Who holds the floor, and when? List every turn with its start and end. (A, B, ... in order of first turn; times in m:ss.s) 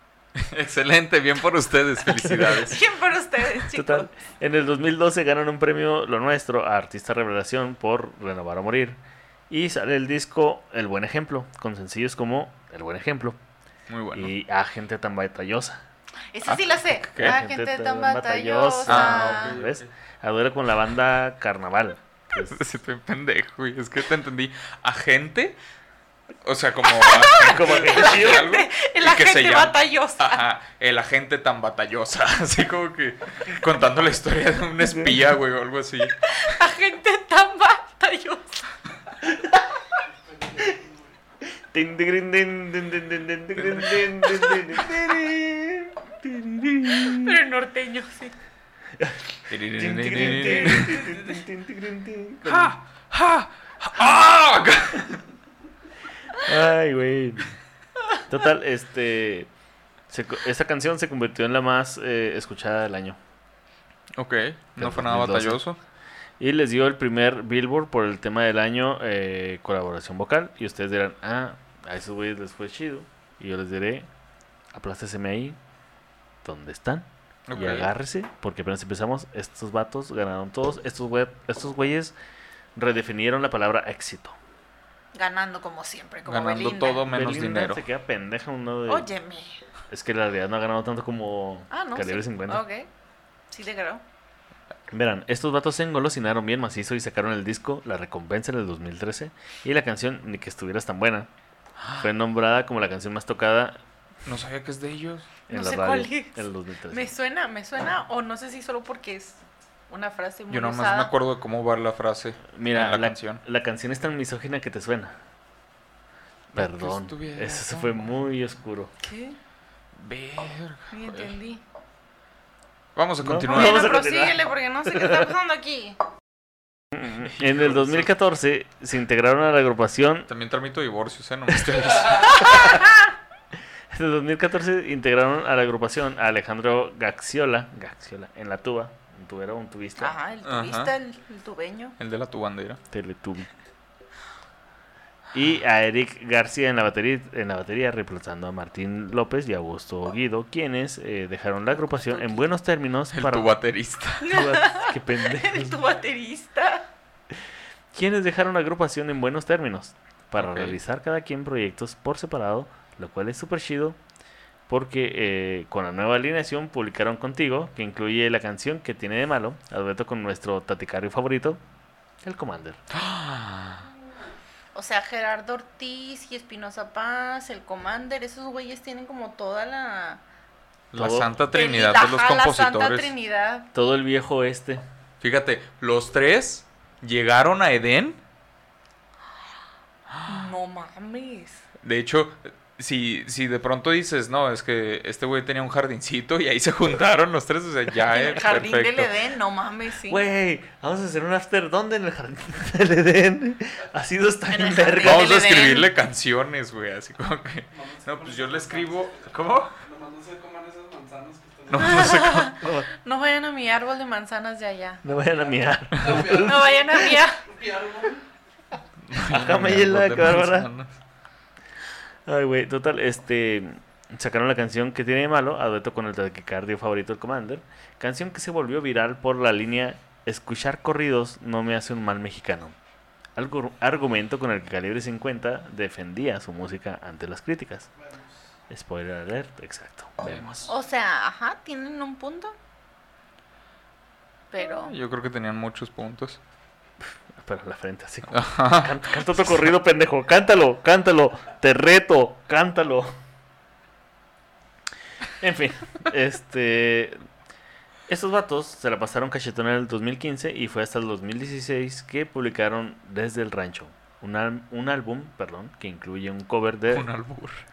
0:00.4-0:02.8 A
0:02.0-0:02.6 B
0:02.6-0:04.1 C
0:03.6-0:13.4 B
0:13.9-0:14.3 A
0:14.1-0:15.8 B
0:16.3-0:19.6 C
0:16.4-0:17.4 A
0:17.2-0:22.6 B
0:18.9-0:19.9 A
0:22.4-0:25.6 A
0:26.4-0:36.2 A
0:26.9-0:30.4 C
0:27.4-0:28.5 B
0:34.8-0:35.2 B
0:36.2-0:38.6 C
0:39.2-0:39.7 B
0:40.3-0:41.1 D
0:41.5-0:47.4 B
0:43.6-0:44.7 A
0:47.1-0:48.3 C
0:49.0-0:52.7 B
0:49.5-0:51.1 A
0:52.4-0:55.2 A
0:56.3-0:57.5 B
0:58.3-0:59.5 B
1:00.1-1:03.2 B
1:04.2-1:05.8 A
1:04.8-1:05.6 B
1:06.4-1:14.1 B
1:14.7-1:15.6 B
1:16.4-1:22.1 B
1:17.5-1:17.9 A
1:22.8-1:24.4 B
1:25.1-1:27.1 C
1:26.2-1:27.8 A
1:27.1-1:29.1 B
1:28.9-1:29.6 C
1:29.9-1:32.6 B
1:31.7-1:32.9 C
1:33.5-1:34.0 C
1:34.9-1:41.3 B
1:42.0-1:43.8 B
1:44.2-1:45.4 A
1:45.5-1:47.1 B
1:45.5-1:51.1 C
1:50.5-1:53.4 A
1:52.5-1:55.2 B
1:56.5-1:58.1 A
1:56.6-1:58.9 B
1:59.0-1:59.4 C
1:59.9-2:01.3 A
2:00.9-2:01.6 C
2:03.0-2:03.9 A
2:03.2-2:05.3 B
2:03.4-2:06.0 C
2:06.9-2:10.3 B
2:07.2-2:08.1 A
2:10.3-2:12.7 A
2:12.3-2:12.8 B
2:13.9-2:20.2 B
2:20.0-2:21.9 C
2:20.4-2:20.9 A
2:22.0-2:22.8 A
2:22.9-2:23.5 B
2:25.3-2:33.5 B
2:31.9-2:32.4 C
2:33.1-2:34.4 A
2:34.2-2:36.9 C
2:34.3-2:35.8 B
2:37.9-2:44.0 B
2:40.4-2:40.8 A
2:44.7-2:51.6 B
2:52.2-2:52.8 B
2:52.9-2:53.9 A
2:54.7-3:00.2 C
3:00.9-3:03.1 A
3:00.9-3:01.4 B
3:01.5-3:03.7 C
3:03.7-3:04.8 B
3:05.2-3:08.2 A
3:10.2-3:11.6 C
3:11.8-3:19.1 A
3:18.0-3:20.2 C
3:20.1-3:25.3 B
3:24.5-3:25.9 C
3:25.0-3:29.7 A
3:27.7-3:29.3 D
3:29.8-3:32.0 D
3:31.7-3:32.5 A
3:31.8-3:35.0 C
3:32.5-3:32.9 B
3:35.0-3:37.1 B
3:36.0-3:38.2 D
3:36.3-3:37.4 C
3:39.1-3:40.9 A
3:39.2-3:40.7 B
3:42.2-3:52.8 B
3:53.4-3:57.9 B
3:58.7-4:00.7 B
4:00.7-4:02.5 C
4:04.5-4:04.9 C
4:04.6-4:06.4 A
4:07.3-4:13.1 B
4:08.3-4:09.0 A
4:15.4-4:17.2 B
4:18.1-4:27.1 B
4:26.9-4:27.6 A